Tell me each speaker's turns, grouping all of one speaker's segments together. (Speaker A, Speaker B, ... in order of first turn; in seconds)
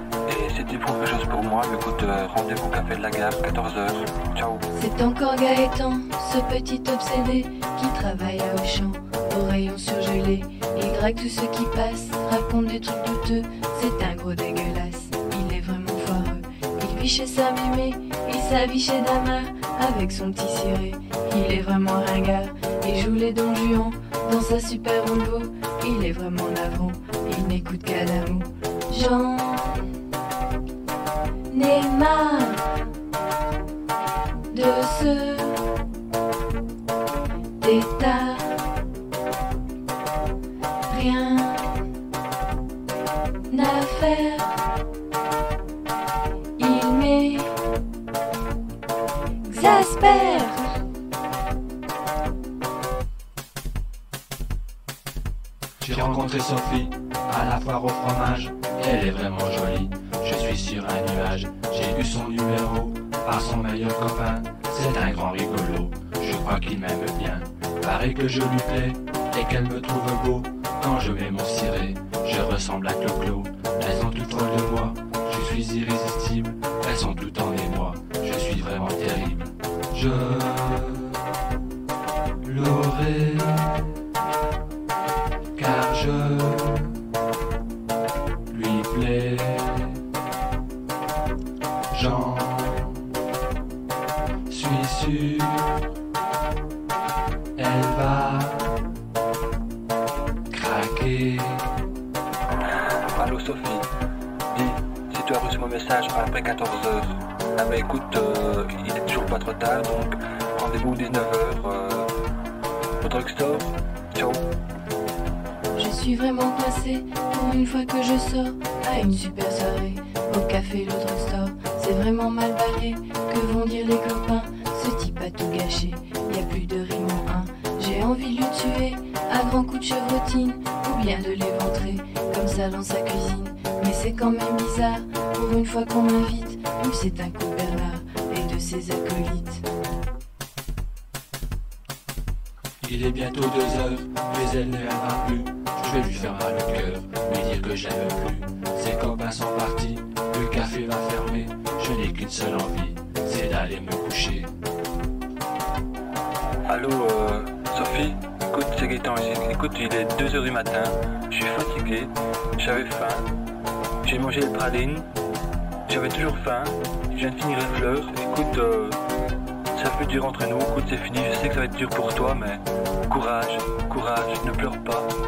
Speaker A: 0.3-4.7, 103.1-103.9, 104.5-112.1, 113.0-114.4, 156.7-163.3, 164.0-165.1, 165.9-169.0, 169.7-175.1
Speaker B: 4.7-30.0, 31.5-32.8, 34.5-35.7, 37.6-38.8, 40.9-41.9, 43.5-44.6, 46.6-47.6, 49.4-50.8, 115.8-139.7
Speaker C: 55.8-81.3, 82.4-84.0, 85.6-87.0, 88.5-90.0, 91.9-93.1, 94.5-95.9, 97.6-98.8, 100.5-101.8, 142.8-154.5